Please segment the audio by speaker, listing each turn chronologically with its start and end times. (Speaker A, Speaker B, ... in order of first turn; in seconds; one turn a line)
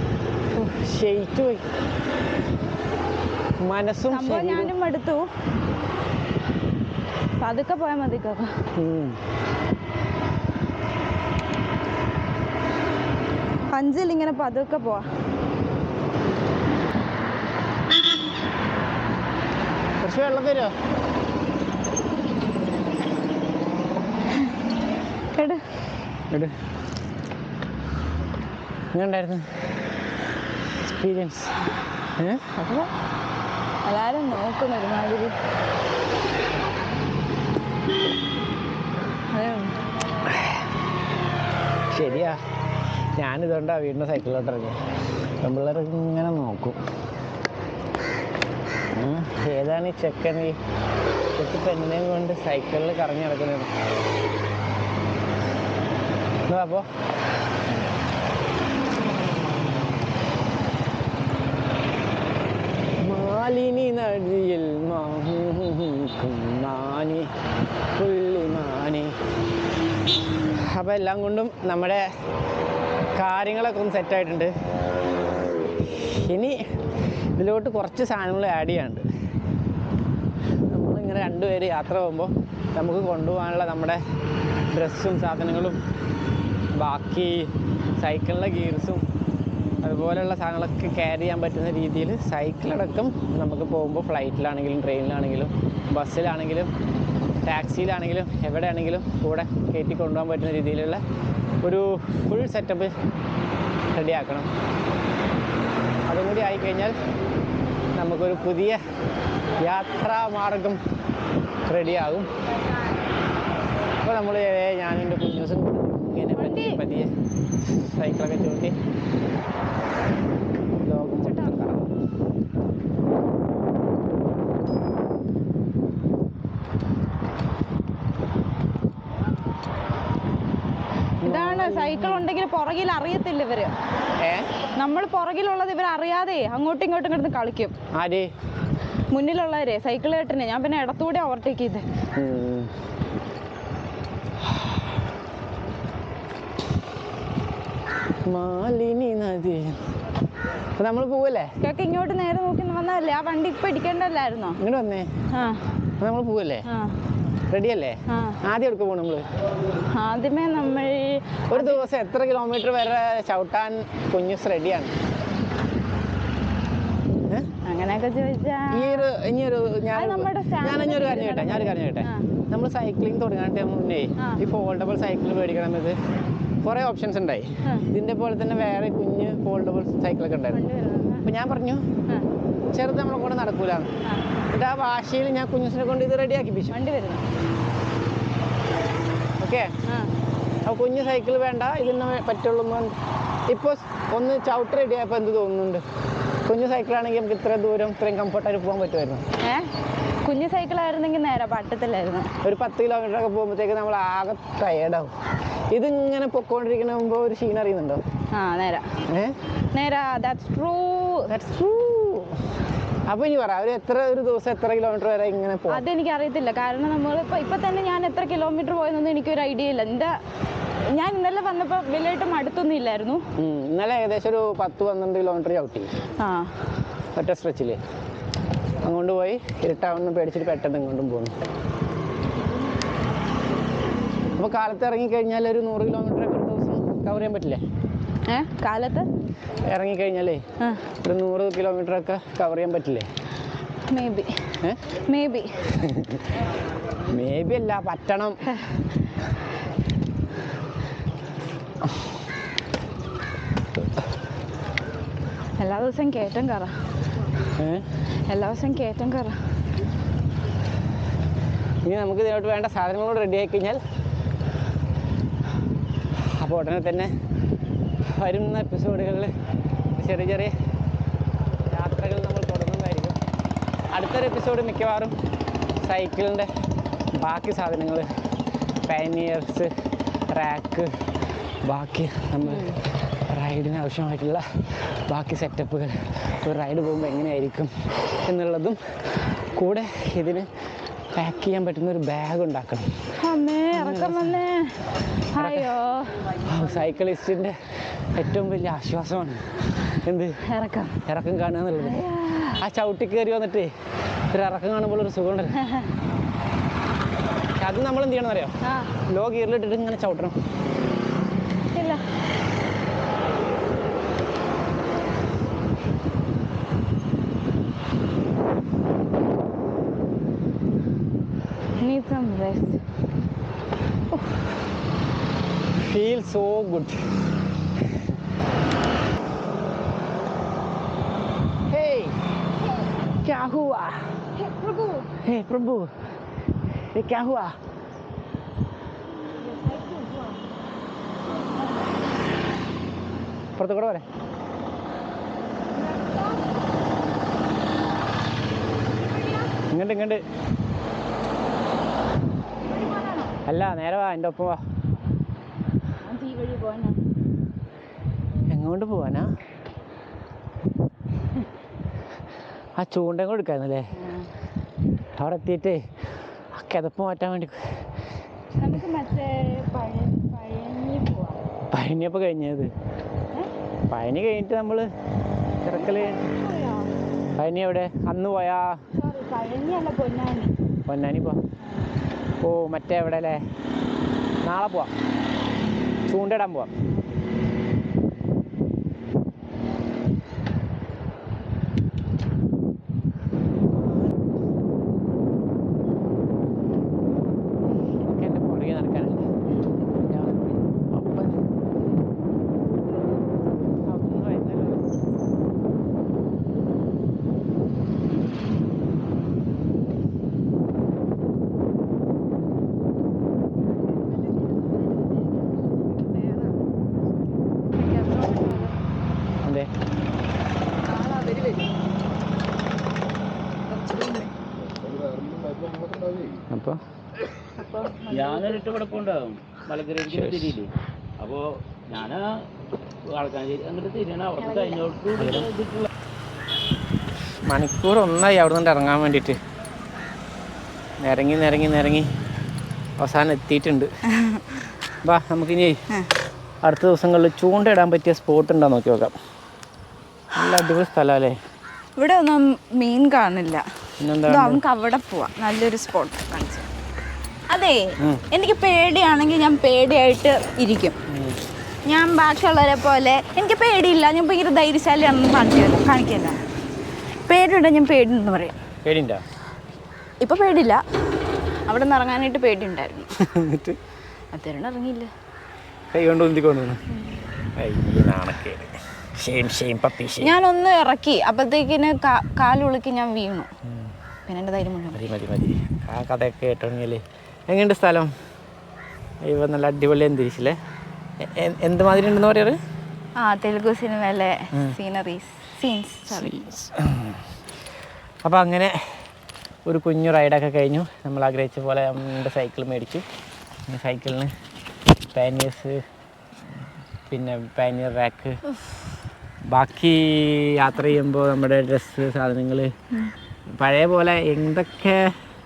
Speaker A: 0.6-1.6
Speaker A: 3.6-4.7
Speaker B: 4.1-5.3
Speaker B: 7.4-8.6
Speaker A: 8.8-9.2
Speaker B: 13.7-15.1
Speaker A: 20.0-20.7
Speaker B: 25.4-25.6
Speaker A: 28.9-29.5
Speaker A: 30.8-31.5
Speaker A: 32.2-32.5
Speaker B: 32.6-32.9
Speaker B: 33.9-35.4
Speaker B: 39.3-39.8
Speaker A: 40.3-40.6
Speaker A: 41.9-42.4
Speaker A: 43.2-44.8
Speaker A: 45.4-46.8
Speaker A: 48.9-50.6
Speaker A: 51.4-53.7
Speaker A: 56.5-56.9
Speaker A: 63.0-67.3
Speaker A: 68.0-69.2
Speaker A: 70.6-72.1
Speaker A: 73.2-74.5
Speaker A: 75.8-76.6
Speaker A: 77.4-79.0
Speaker A: 80.7-84.0
Speaker A: 84.7-85.8
Speaker A: 86.8-89.0
Speaker A: 89.8-96.7
Speaker A: 97.5-101.0
Speaker A: 101.6-102.9
Speaker A: 104.0-104.5
Speaker A: 106.1-107.0
Speaker A: 108.0-108.8
Speaker A: 109.6-110.8
Speaker A: 111.7-112.3
Speaker A: 114.0-117.1
Speaker B: 116.3-116.8
Speaker A: 117.7-118.8
Speaker A: 120.8-121.9
Speaker B: 121.3-121.5
Speaker A: 131.2-132.3
Speaker B: 131.2-133.7
Speaker A: 134.2-134.5
Speaker B: 134.8-137.8
Speaker A: 137.9-138.3
Speaker B: 139.1-141.9
Speaker A: 142.2-142.7
Speaker A: 148.3-149.8
Speaker A: 150.8-151.6
Speaker B: 151.6-154.6
Speaker A: 154.6-155.1
Speaker B: 155.3-155.6
Speaker A: 156.0-156.7
Speaker B: 156.7-156.9
Speaker A: 157.5-159.3
Speaker B: 158.1-158.4
Speaker B: 159.9-161.8
Speaker A: 161.5-164.9
Speaker B: 167.7-169.1
Speaker A: 168.7-176.0
Speaker B: 169.9-172.3
Speaker B: 174.2-174.4
Speaker A: 176.6-180.6
Speaker B: 180.5-181.3
Speaker A: 181.2-181.9
Speaker A: 182.7-183.9
Speaker A: 184.5-186.8
Speaker B: 186.7-187.2
Speaker A: 189.4-189.7
Speaker B: 189.9-190.1
Speaker A: 190.7-192.9
Speaker A: 193.5-195.8
Speaker A: 196.5-199.2
Speaker B: 199.4-199.7
Speaker B: 200.2-202.3
Speaker A: 202.4-205.1
Speaker A: 205.7-208.0
Speaker B: 208.3-208.9
Speaker A: 209.1-209.3
Speaker B: 209.7-211.3
Speaker A: 211.3-212.4
Speaker A: 213.1-215.8
Speaker B: 215.7-220.2
Speaker B: 220.9-223.2
Speaker A: 223.4-225.9
Speaker B: 226.2-226.6
Speaker A: 227.2-227.8
Speaker A: 228.8-231.3
Speaker A: 234.4-237.6
Speaker B: 238.3-239.1
Speaker A: 239.7-243.1
Speaker B: 240.6-240.8
Speaker B: 243.9-245.6
Speaker A: 245.8-246.3
Speaker A: 247.1-248.4
Speaker B: 255.6-256.7
Speaker A: 257.6-257.9
Speaker B: 258.3-259.4
Speaker A: 261.9-263.8
Speaker A: 266.4-267.1
Speaker A: 268.1-269.3
Speaker A: 269.9-270.5
Speaker A: 271.7-273.2
Speaker A: 273.9-275.2
Speaker A: 275.8-276.5
Speaker A: 277.1-278.1
Speaker A: 278.9-279.7
Speaker A: 280.3-280.9
Speaker A: 281.6-282.7
Speaker B: 282.4-282.8
Speaker A: 283.3-284.4
Speaker A: 285.1-287.7
Speaker A: 288.3-288.8
Speaker A: 289.6-290.5
Speaker A: 291.1-292.9
Speaker B: 293.2-294.8
Speaker A: 293.7-294.4
Speaker B: 295.3-296.3
Speaker A: 295.4-295.7
Speaker A: 296.3-300.4
Speaker B: 300.4-301.0
Speaker A: 301.0-302.1
Speaker B: 301.8-302.6
Speaker A: 302.6-303.7
Speaker A: 304.3-305.6
Speaker B: 305.6-305.9
Speaker A: 307.6-310.4
Speaker B: 308.6-308.9
Speaker B: 311.7-312.0
Speaker B: 321.8-322.8
Speaker A: 325.8-327.0
Speaker A: 331.7-332.2
Speaker A: 333.2-334.1
Speaker B: 334.4-335.1
Speaker A: 335.2-335.9
Speaker A: 336.9-337.6
Speaker B: 339.2-340.5
Speaker B: 341.2-342.1
Speaker A: 343.6-344.1
Speaker B: 345.7-346.5
Speaker B: 349.0-349.6
Speaker A: 349.7-350.2
Speaker B: 352.6-353.4
Speaker A: 353.5-354.6
Speaker B: 356.0-357.0
Speaker A: 358.5-359.4
Speaker A: 362.8-363.9
Speaker B: 363.9-364.3
Speaker A: 365.2-365.9
Speaker A: 366.5-367.8
Speaker B: 368.6-371.4
Speaker A: 371.7-372.7
Speaker A: 373.9-374.9
Speaker A: 375.6-376.2
Speaker B: 375.7-376.9
Speaker A: 377.4-378.8
Speaker B: 378.9-380.6
Speaker A: 380.9-381.4
Speaker B: 381.6-381.9
Speaker A: 382.4-383.4
Speaker A: 384.4-384.9
Speaker A: 386.1-386.7
Speaker A: 393.7-394.1
Speaker A: 398.0-399.4
Speaker A: 400.0-401.4
Speaker A: 403.9-404.9
Speaker B: 414.1-416.6
Speaker B: 417.7-418.9
Speaker A: 419.4-419.7
Speaker B: 420.9-421.8
Speaker B: 423.6-424.3
Speaker C: 424.9-426.4
Speaker A: 426.5-426.8
Speaker B: 427.6-428.7
Speaker C: 428.1-432.3
Speaker A: 430.1-430.6
Speaker C: 433.1-435.9
Speaker B: 434.4-434.9
Speaker A: 435.2-435.5
Speaker A: 437.5-439.4
Speaker A: 441.0-442.1
Speaker A: 443.0-443.9
Speaker B: 444.1-444.5
Speaker A: 445.0-445.8
Speaker A: 446.6-449.1
Speaker A: 450.4-451.4
Speaker B: 452.0-453.6
Speaker A: 454.0-454.6
Speaker B: 454.3-456.7
Speaker B: 457.5-461.0
Speaker A: 461.1-461.4
Speaker B: 461.9-466.4
Speaker B: 467.3-468.6
Speaker A: 468.9-469.2
Speaker B: 470.2-470.8
Speaker B: 471.7-473.1
Speaker A: 473.2-473.8
Speaker B: 474.3-475.1
Speaker A: 475.9-476.8
Speaker A: 477.6-480.3
Speaker B: 480.2-483.5
Speaker B: 484.3-485.0
Speaker A: 484.9-488.1
Speaker A: 489.2-490.6
Speaker A: 491.2-492.6
Speaker B: 493.2-496.4
Speaker A: 496.1-497.2
Speaker A: 498.2-499.0
Speaker A: 499.7-503.1
Speaker A: 503.7-504.3
Speaker A: 505.1-505.8
Speaker A: 507.1-508.4
Speaker A: 509.5-512.7
Speaker A: 513.5-515.1